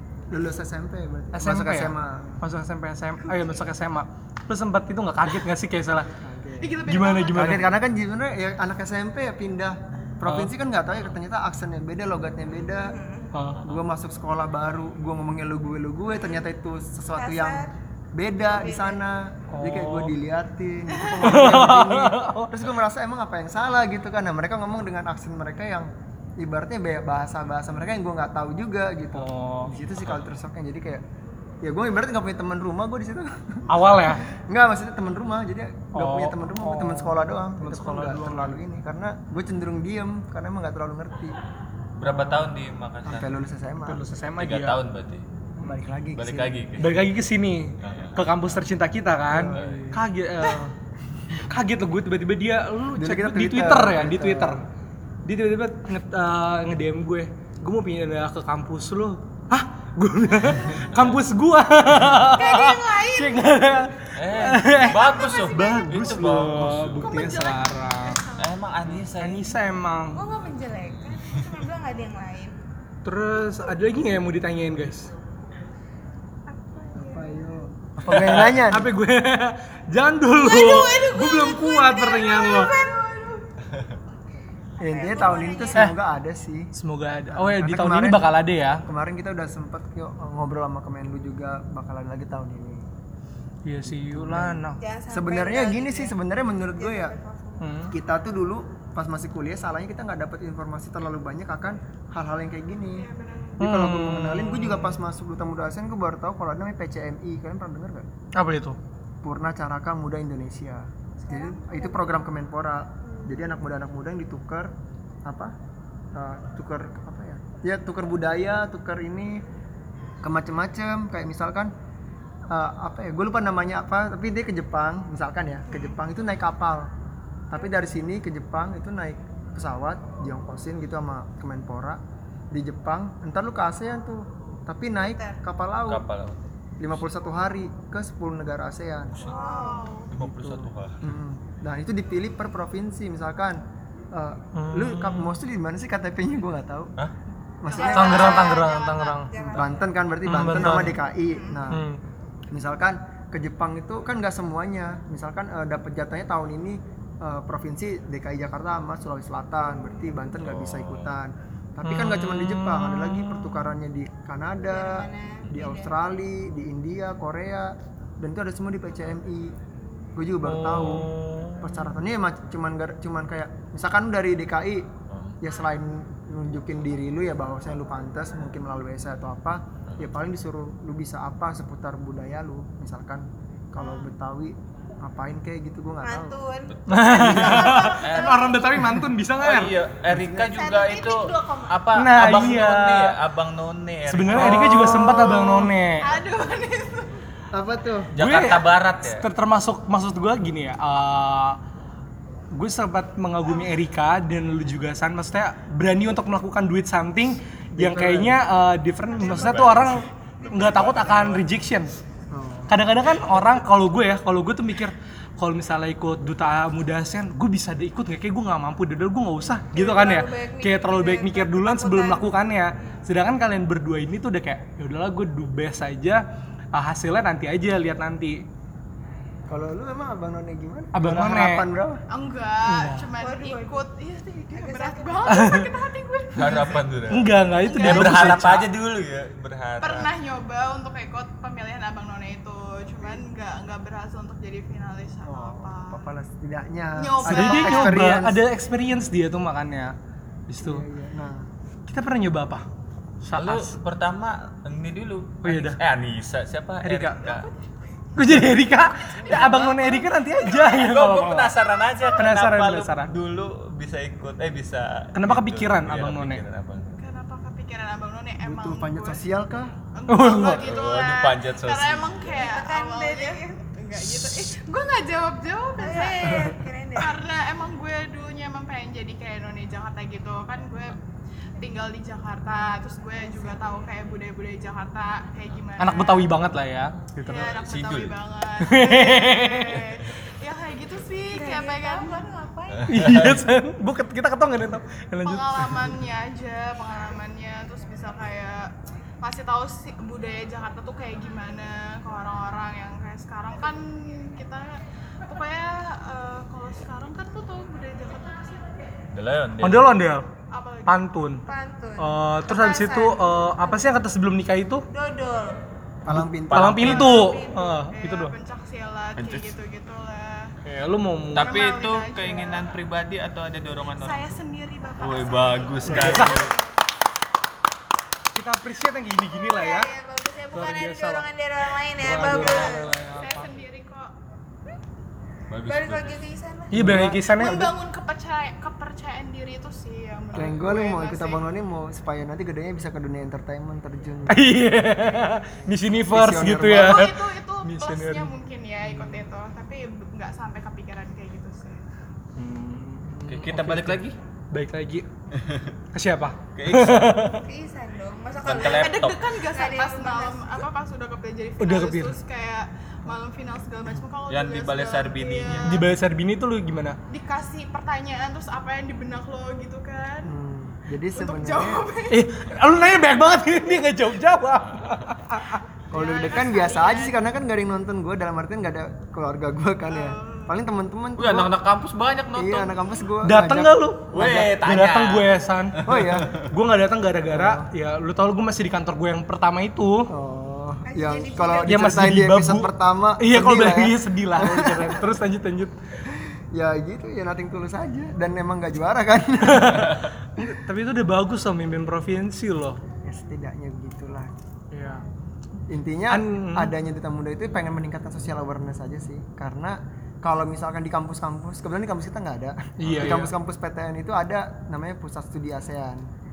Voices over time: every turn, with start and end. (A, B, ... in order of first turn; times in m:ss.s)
0:00.3-0:02.4 A
0:01.3-0:06.1 B
0:06.2-0:13.0 A
0:06.6-0:07.6 C
0:06.9-0:07.7 B
0:10.3-0:10.5 B
0:12.7-0:13.3 D
0:13.3-0:13.7 B
0:13.6-0:31.0 A
0:17.1-0:17.7 D
0:18.4-0:19.0 D
0:19.5-0:20.2 B
0:20.9-0:21.3 C
0:21.1-0:22.5 B
0:29.1-0:29.7 B
0:30.0-0:30.3 E
0:31.6-0:41.4 A
0:33.7-0:34.3 B
0:35.9-0:38.6 B
0:42.0-0:43.4 E
0:42.0-0:42.5 A
0:43.0-0:44.0 A
0:43.8-0:44.8 B
0:44.4-0:45.2 E
0:45.6-0:46.7 A
0:46.2-0:47.1 E
0:46.8-0:50.7 B
0:47.8-0:48.4 E
0:49.3-0:50.0 A
0:49.5-0:50.0 E
0:51.4-0:54.6 B
0:53.0-0:54.6 A
0:55.3-1:08.2 B
1:00.5-1:01.2 E
1:02.3-1:03.6 D
1:04.2-1:07.4 E
1:04.7-1:08.6 C
1:08.4-1:09.6 E
1:09.2-1:10.2 B
1:10.1-1:12.6 D
1:11.1-1:11.4 E
1:13.0-1:15.1 B
1:16.5-1:17.4 D
1:16.9-1:18.9 A
1:18.0-1:22.8 B
1:20.3-1:23.4 D
1:24.8-1:26.7 A
1:24.8-1:25.9 D
1:26.7-1:28.8 B
1:27.3-1:28.3 A
1:28.9-1:32.9 A
1:33.6-1:34.8 B
1:33.8-1:37.2 A
1:34.8-1:36.2 D
1:36.7-1:37.8 D
1:37.6-1:37.9 B
1:37.9-1:48.1 A
1:43.0-1:43.6 C
1:43.6-1:45.0 B
1:48.4-1:48.8 B
1:49.2-1:54.7 A
1:51.2-1:52.2 D
1:53.1-1:53.5 D
1:55.2-1:55.6 A
1:56.1-1:59.4 A
2:00.2-2:01.7 A
2:02.5-2:06.9 A
2:05.7-2:06.0 D
2:07.5-2:12.0 A
2:12.5-2:16.1 A
2:15.1-2:15.4 D
2:15.9-2:16.4 E
2:16.8-2:19.2 A
2:19.1-2:19.4 E
2:19.2-2:20.0 D
2:19.2-2:20.1 C
2:20.1-2:21.0 E
2:20.2-2:20.7 B
2:21.0-2:23.6 A
2:24.1-2:26.9 A
2:24.5-2:25.3 B
2:27.6-2:28.4 A
2:27.7-2:29.8 D
2:27.7-2:28.7 C
2:27.9-2:29.3 B
2:29.4-2:31.8 A
2:30.2-2:31.0 B
2:31.3-2:31.7 D
2:31.7-2:32.0 B
2:32.5-2:49.6 A
2:39.8-2:40.1 D
2:40.3-2:41.1 E
2:41.8-2:43.7 B
2:44.6-2:45.9 D
2:50.2-2:54.9 A
2:50.4-2:51.9 B
2:55.1-2:55.4 E
2:55.4-3:06.4 A
2:59.9-3:00.1 E
3:06.0-3:08.7 D
3:06.7-3:08.6 E
3:06.9-3:09.8 B
3:08.8-3:09.1 A
3:09.4-3:15.0 E
3:10.1-3:10.6 A
3:10.5-3:11.8 D
3:12.0-3:13.2 B
3:14.1-3:16.2 B
3:14.3-3:15.3 A
3:14.8-3:17.2 C
3:17.5-3:18.1 A
3:18.1-3:19.3 E
3:18.2-3:21.6 B
3:22.5-3:32.0 B
3:27.8-3:28.4 A
3:29.2-3:31.5 E
3:29.2-3:29.8 D
3:30.4-3:31.0 D
3:32.3-3:32.8 A
3:32.7-3:48.4 B
3:39.7-3:43.0 D
3:49.5-3:52.0 A
3:50.9-3:51.7 B
3:52.1-3:56.8 C
3:52.6-3:53.1 B
3:53.2-3:55.6 D
3:55.3-3:55.7 B
3:56.3-4:00.1 E
3:57.1-3:58.7 B
3:57.6-3:58.5 C
3:59.8-4:06.1 C
4:05.2-4:08.4 A
4:07.0-4:08.0 C
4:07.2-4:09.9 B
4:10.5-4:10.8 B
4:10.6-4:11.5 A
4:11.9-4:12.7 B
4:13.2-4:13.8 B
4:13.4-4:17.5 E
4:15.4-4:15.8 B
4:16.8-4:17.2 B
4:17.2-4:17.6 C
4:18.2-4:21.6 B
4:19.2-4:20.8 C
4:19.2-4:27.0 E
4:22.1-4:23.1 B
4:25.1-4:26.4 B
4:27.0-4:29.2 C
4:28.4-4:29.7 A
4:30.0-4:41.0 C
4:30.1-4:30.6 B
4:30.4-4:32.4 E
4:32.3-4:33.6 D
4:35.8-4:37.2 D
4:36.2-4:36.6 A
4:41.6-4:46.3 C
4:45.8-4:47.5 B
4:47.2-4:52.3 C
4:47.3-4:48.2 E
4:48.6-4:49.9 B
4:51.3-4:52.9 D
4:52.7-4:53.4 E
4:52.9-4:55.8 B
4:55.2-5:08.7 C
5:09.1-5:09.9 E
5:09.6-5:10.3 B
5:10.5-5:11.0 C
5:10.9-5:11.4 B
5:11.5-5:14.0 D
5:12.0-5:14.9 B
5:14.9-5:15.6 D
5:16.0-5:17.2 A
5:16.1-5:18.4 B
5:16.5-5:16.9 E
5:16.8-5:17.7 D
5:17.9-5:20.5 C
5:19.2-5:19.5 E
5:20.6-5:21.6 B
5:21.3-5:24.3 E
5:21.4-5:22.7 C
5:24.0-5:26.3 C
5:25.0-5:26.6 E
5:25.9-5:26.4 B
5:26.1-5:26.7 D
5:28.4-5:29.9 B
5:29.3-5:32.9 D
5:30.5-5:31.3 B
5:32.0-5:33.6 B
5:32.4-5:34.1 C
5:35.5-5:36.2 E
5:35.6-5:36.9 D
5:36.7-5:37.7 B
5:36.7-5:37.6 A
5:37.3-5:41.4 C
5:40.3-5:44.5 A
5:44.3-5:48.3 B
5:46.1-5:47.1 A
5:46.7-5:51.8 C
5:52.4-5:55.1 B
5:53.3-5:54.2 E
5:55.4-5:55.7 E
5:55.9-5:57.4 B
5:56.6-5:57.3 E
5:57.3-6:00.6 D
5:58.4-5:59.2 E
5:58.6-6:05.8 C
6:01.6-6:02.2 B
6:04.3-6:05.8 E
6:05.6-6:07.0 B
6:07.1-6:10.3 C
6:10.2-6:11.9 A
6:11.2-6:12.2 C
6:12.1-6:15.6 B
6:15.9-6:17.2 C
6:15.9-6:21.5 A
6:19.9-6:20.5 C
6:21.2-6:22.8 E
6:22.3-6:24.5 A
6:23.2-6:30.1 B
6:24.1-6:26.5 E
6:25.8-6:26.3 A
6:27.3-6:27.7 A
6:30.1-6:35.0 A
6:30.9-6:31.9 D
6:31.6-6:35.7 B
6:36.1-6:40.4 A
6:39.4-6:42.8 B
6:43.0-6:44.3 A
6:44.7-6:45.0 B
6:45.7-6:56.1 A
6:46.1-6:46.7 B
6:52.8-6:53.3 B
6:52.9-6:53.2 E